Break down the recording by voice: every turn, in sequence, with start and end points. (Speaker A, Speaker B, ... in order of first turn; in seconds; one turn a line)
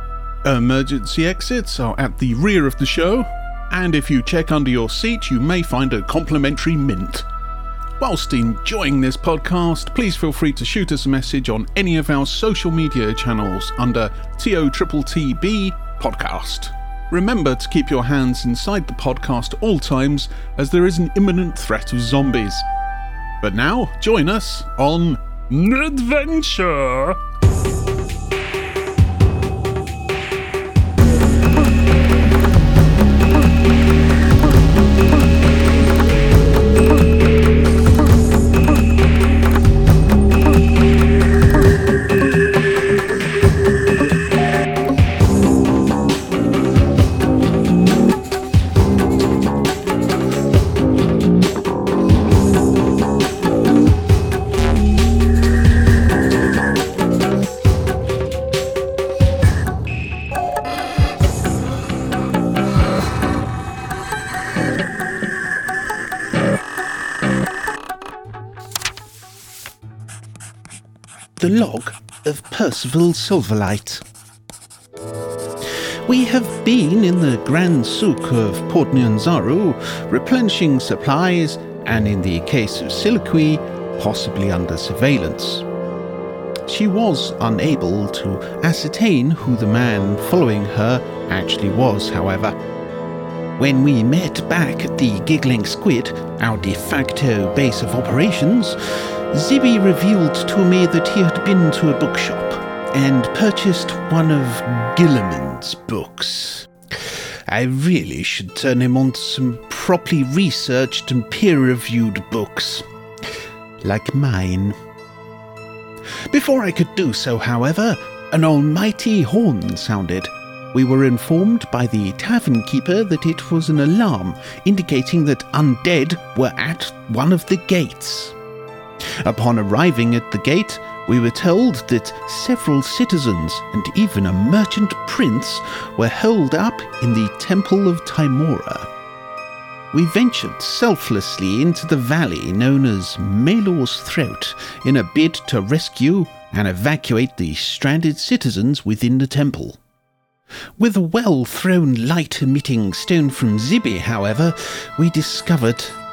Speaker A: 0.4-7.3
Speaker A: 8.0-22.7
Speaker A: 23.4-27.2
Speaker A: 71.4-74.0
Speaker A: 76.1-85.6
Speaker A: 86.7-92.5
Speaker A: 93.6-98.8
Speaker A: 99.3-106.7
Speaker A: 107.5-112.8
Speaker A: 113.8-114.8
Speaker A: 116.3-128.3
Speaker A: 129.2-138.9
Speaker A: 139.9-149.8
Speaker A: 150.8-155.9